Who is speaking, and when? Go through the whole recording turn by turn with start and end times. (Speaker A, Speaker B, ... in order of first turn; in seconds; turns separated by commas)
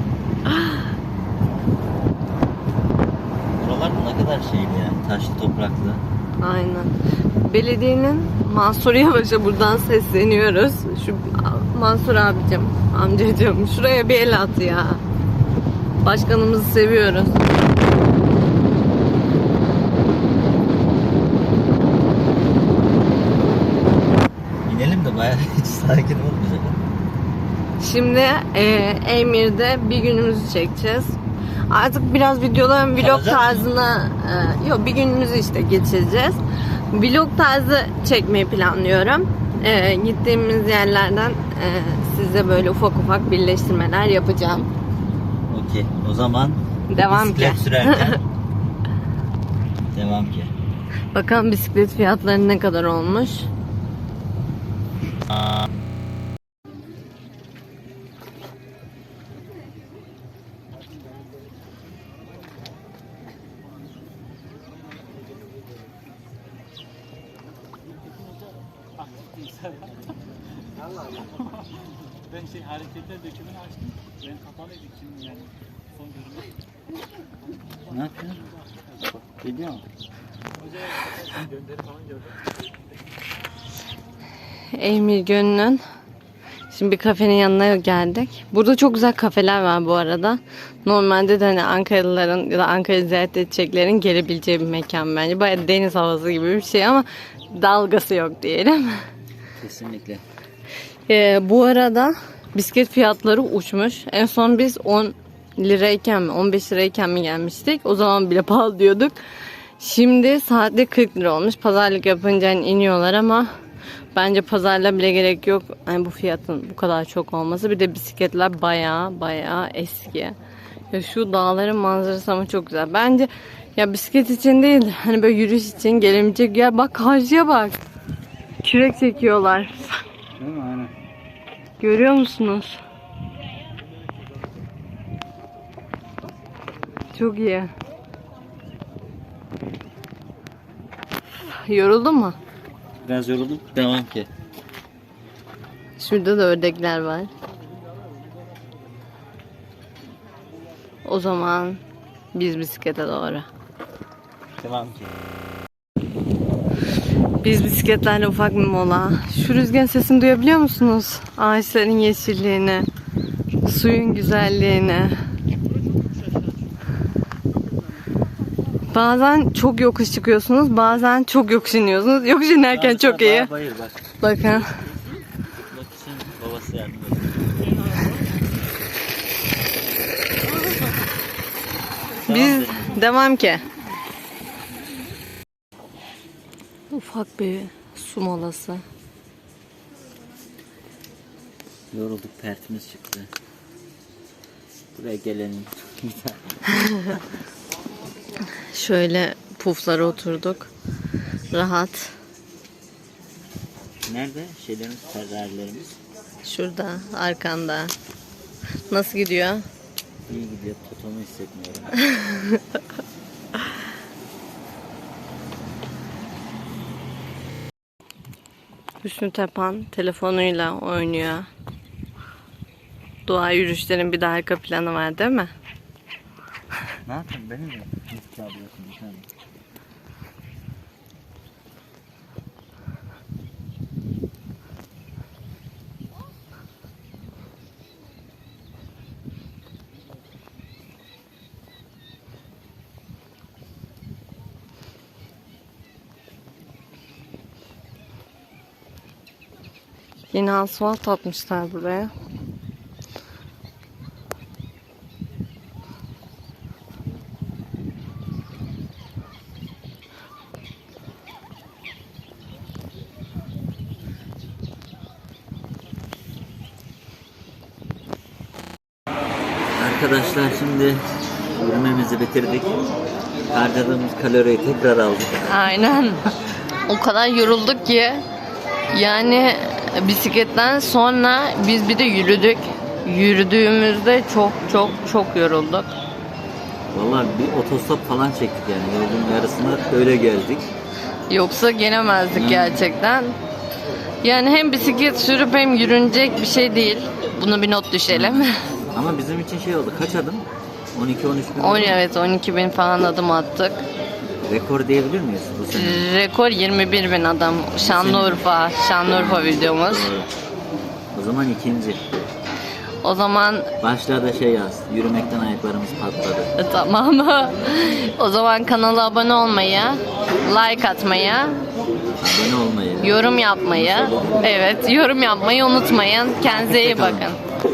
Speaker A: 0.5-0.7, Speaker B: 3.6-6.0, Speaker A: 6.4-15.0, Speaker A: 16.0-17.5, Speaker B: 24.6-26.8, Speaker A: 27.8-31.2, Speaker A: 31.7-44.7, Speaker B: 32.9-33.7, Speaker B: 45.5-48.2, Speaker A: 46.9-48.2, Speaker B: 49.9-50.5, Speaker A: 51.1-53.5, Speaker C: 72.6-73.7, Speaker C: 74.5-75.4, Speaker B: 77.9-78.4, Speaker B: 79.0-79.8, Speaker A: 84.7-85.8, Speaker A: 86.7-99.0, Speaker B: 99.6-100.2, Speaker A: 101.1-109.2, Speaker A: 109.8-113.5, Speaker A: 114.1-120.3, Speaker A: 120.9-127.8, Speaker A: 128.6-130.0, Speaker B: 130.4-130.9, Speaker A: 131.8-132.8, Speaker A: 137.1-137.7, Speaker A: 141.5-142.4, Speaker B: 143.0-144.3, Speaker A: 146.0-147.3, Speaker A: 151.0-151.8, Speaker A: 152.3-153.5, Speaker B: 154.6-155.1, Speaker A: 157.4-162.9, Speaker A: 163.6-165.2, Speaker A: 168.9-173.5, Speaker B: 172.7-174.0, Speaker A: 174.2-174.8, Speaker B: 175.7-177.5, Speaker B: 182.2-183.0, Speaker A: 182.3-183.6, Speaker A: 186.9-188.8, Speaker B: 191.9-193.3, Speaker B: 194.9-196.6, Speaker A: 196.7-197.1, Speaker A: 198.6-200.7, Speaker A: 201.5-202.1, Speaker B: 204.0-206.0, Speaker A: 206.4-207.9, Speaker A: 208.9-209.6, Speaker B: 210.3-212.0, Speaker A: 219.0-221.5, Speaker A: 223.2-225.5, Speaker B: 227.1-229.3, Speaker A: 250.3-252.1, Speaker B: 269.8-272.7, Speaker B: 273.5-275.5, Speaker A: 275.4-276.3, Speaker A: 276.8-278.2, Speaker A: 278.9-285.9, Speaker B: 286.9-290.7, Speaker A: 291.3-293.4, Speaker B: 292.3-292.8, Speaker A: 294.2-298.6, Speaker B: 298.1-302.0, Speaker A: 301.6-303.8, Speaker B: 304.5-306.1, Speaker A: 305.7-310.1, Speaker B: 307.8-308.5, Speaker B: 309.0-310.3, Speaker B: 311.1-312.0, Speaker A: 313.0-313.7, Speaker B: 313.8-316.5, Speaker A: 316.6-321.6, Speaker B: 322.2-323.1, Speaker A: 323.0-327.4, Speaker B: 323.7-324.3, Speaker B: 326.7-327.3